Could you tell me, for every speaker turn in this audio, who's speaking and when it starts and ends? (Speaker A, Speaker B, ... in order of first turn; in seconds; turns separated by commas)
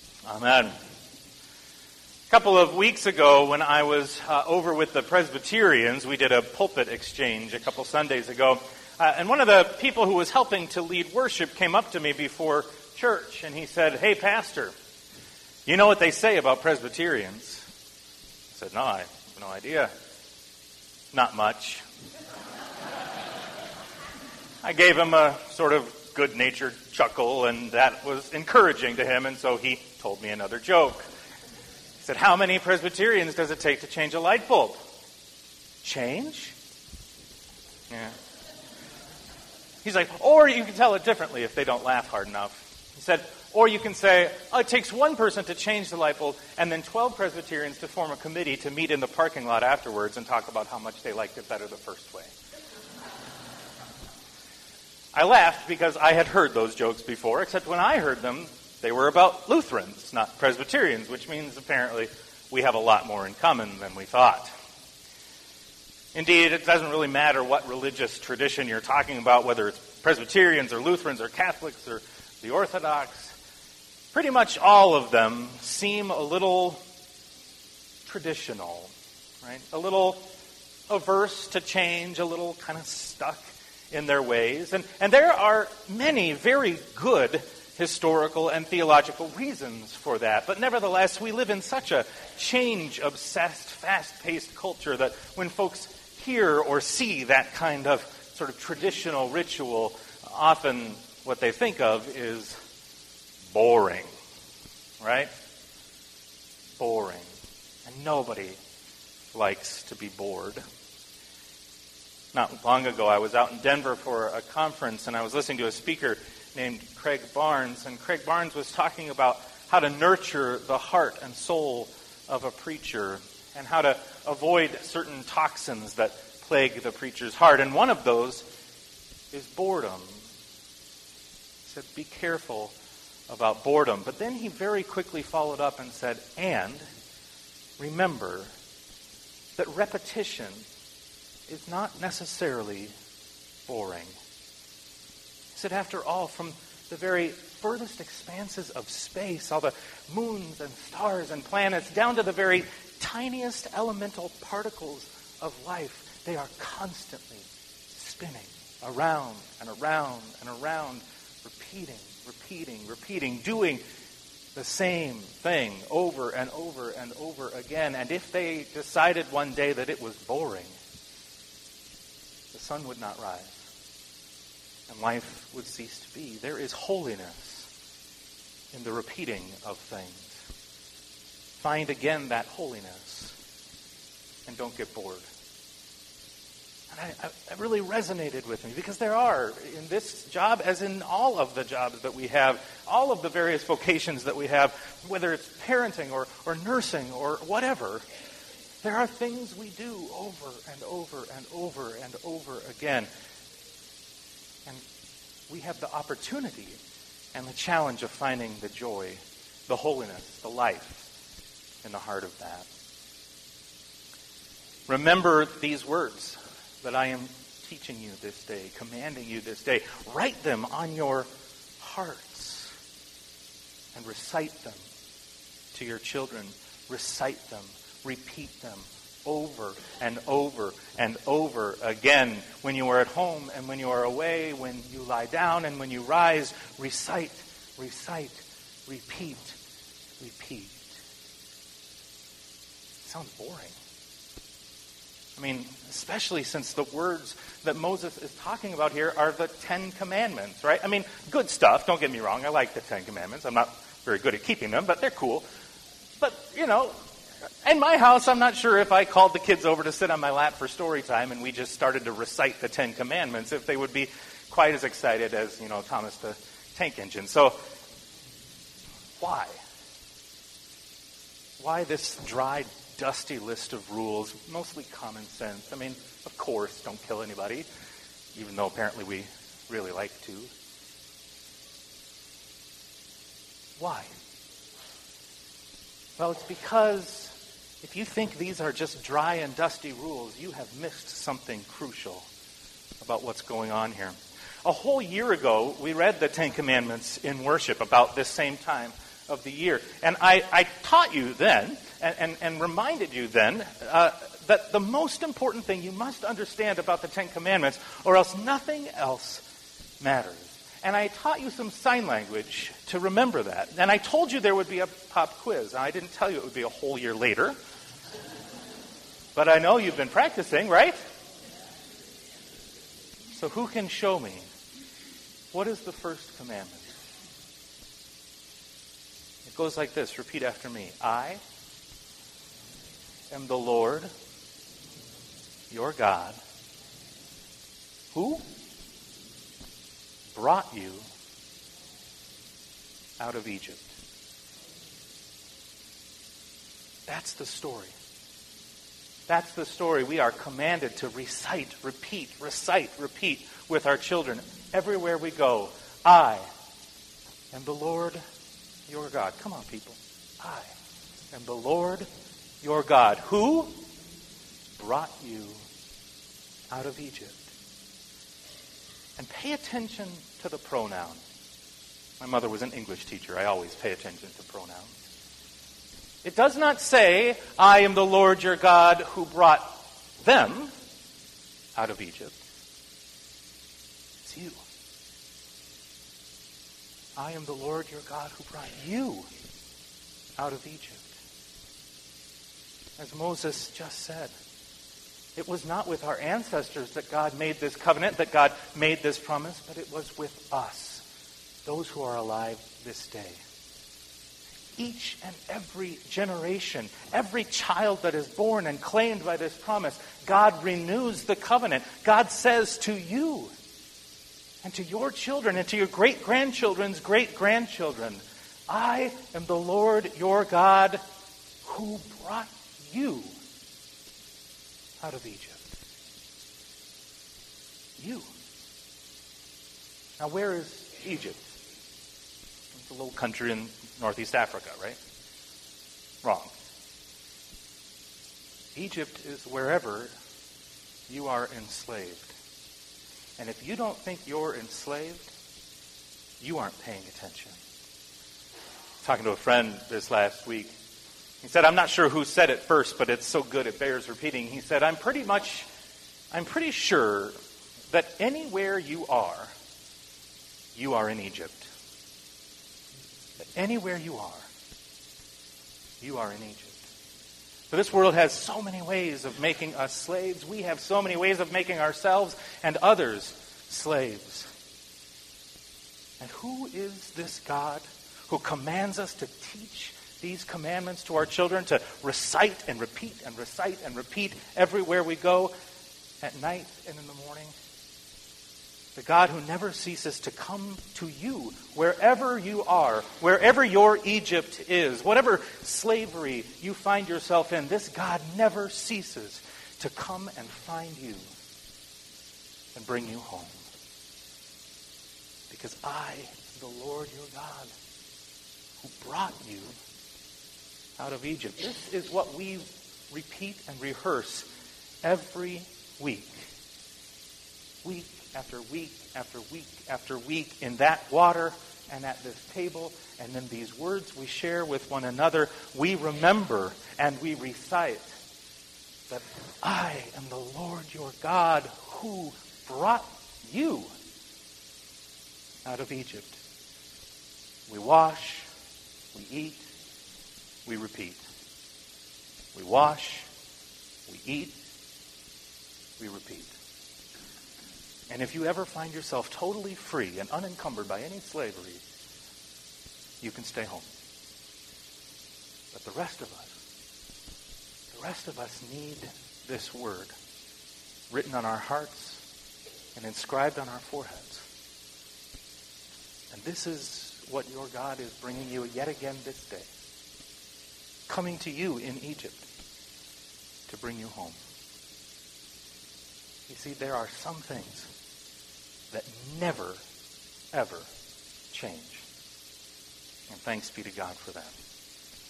Speaker A: 0.2-0.7, Speaker A: 2.3-14.7, Speaker A: 15.7-17.6, Speaker A: 18.5-19.9, Speaker A: 21.1-21.8, Speaker A: 24.6-31.1, Speaker A: 32.0-34.8, Speaker A: 35.8-36.5, Speaker A: 37.9-38.2, Speaker A: 39.8-52.3, Speaker A: 55.1-64.5, Speaker A: 66.1-73.4, Speaker A: 74.1-76.8, Speaker A: 78.0-80.2, Speaker A: 80.9-102.6, Speaker A: 103.5-104.1, Speaker A: 105.0-105.3, Speaker A: 106.8-107.3, Speaker A: 107.8-108.6, Speaker A: 109.3-110.6, Speaker A: 112.3-128.4, Speaker A: 129.3-130.2, Speaker A: 131.7-132.8, Speaker A: 133.3-136.8, Speaker A: 137.8-138.5, Speaker A: 139.6-140.7, Speaker A: 141.5-142.9, Speaker A: 143.7-144.2, Speaker A: 145.5-163.8, Speaker A: 164.5-170.8, Speaker A: 172.5-173.6, Speaker A: 174.9-177.7, Speaker A: 178.7-180.3, Speaker A: 181.6-183.3, Speaker A: 184.5-185.3, Speaker A: 186.9-198.0, Speaker A: 198.8-203.1, Speaker A: 205.5-206.8, Speaker A: 207.3-211.1, Speaker A: 211.8-212.7, Speaker A: 214.9-222.7, Speaker A: 223.9-224.8, Speaker A: 225.7-239.6, Speaker A: 240.2-241.0, Speaker A: 243.0-243.8, Speaker A: 245.3-255.4, Speaker A: 256.2-256.9, Speaker A: 257.6-267.6, Speaker A: 269.2-269.6, Speaker A: 271.6-277.7, Speaker A: 278.3-280.5, Speaker A: 283.8-284.1, Speaker A: 286.2-292.3, Speaker A: 293.0-309.4, Speaker A: 310.0-317.6, Speaker A: 319.3-321.0, Speaker A: 323.3-324.5, Speaker A: 325.5-326.9, Speaker A: 329.4-331.4, Speaker A: 333.3-334.1, Speaker A: 335.7-336.4, Speaker A: 338.1-338.4, Speaker A: 340.3-341.1, Speaker A: 343.2-344.0, Speaker A: 347.1-347.9, Speaker A: 349.3-356.4, Speaker A: 357.5-358.2, Speaker A: 358.9-360.7, Speaker A: 361.3-362.1, Speaker A: 362.6-363.8, Speaker A: 364.8-365.6, Speaker A: 366.7-367.5, Speaker A: 369.2-371.2, Speaker A: 372.2-374.9, Speaker A: 376.2-380.7, Speaker A: 381.7-382.4, Speaker A: 384.2-384.6, Speaker A: 387.1-389.3, Speaker A: 390.4-391.1, Speaker A: 393.0-394.3, Speaker A: 395.4-401.0, Speaker A: 401.6-403.4, Speaker A: 404.8-413.5, Speaker A: 414.6-421.0, Speaker A: 421.6-423.3, Speaker A: 425.0-425.6, Speaker A: 428.0-428.3, Speaker A: 430.2-431.5, Speaker A: 432.7-435.0, Speaker A: 436.2-436.5, Speaker A: 438.7-440.1, Speaker A: 441.1-442.3, Speaker A: 443.4-445.3, Speaker A: 446.4-447.6, Speaker A: 449.0-450.7, Speaker A: 451.4-455.7, Speaker A: 456.3-457.3, Speaker A: 457.9-459.5, Speaker A: 460.7-461.7, Speaker A: 463.5-464.5, Speaker A: 466.0-466.8, Speaker A: 467.7-474.5, Speaker A: 476.2-485.5, Speaker A: 486.2-487.5, Speaker A: 488.9-501.3, Speaker A: 502.7-503.6, Speaker A: 505.5-507.7, Speaker A: 508.8-509.8, Speaker A: 511.0-514.5, Speaker A: 515.0-516.5, Speaker A: 517.8-528.1, Speaker A: 529.1-533.9, Speaker A: 535.6-536.4, Speaker A: 537.7-538.5, Speaker A: 539.1-539.7, Speaker A: 540.6-541.2, Speaker A: 542.5-543.3, Speaker A: 544.1-544.6, Speaker A: 546.0-546.5, Speaker A: 548.1-551.8, Speaker A: 553.2-553.9, Speaker A: 555.7-556.5, Speaker A: 557.9-560.1, Speaker A: 561.1-562.2, Speaker A: 562.9-564.5, Speaker A: 566.3-569.7, Speaker A: 571.1-572.4, Speaker A: 573.7-574.4, Speaker A: 576.5-577.9, Speaker A: 578.9-579.8, Speaker A: 580.5-580.9, Speaker A: 581.5-582.0, Speaker A: 583.3-584.5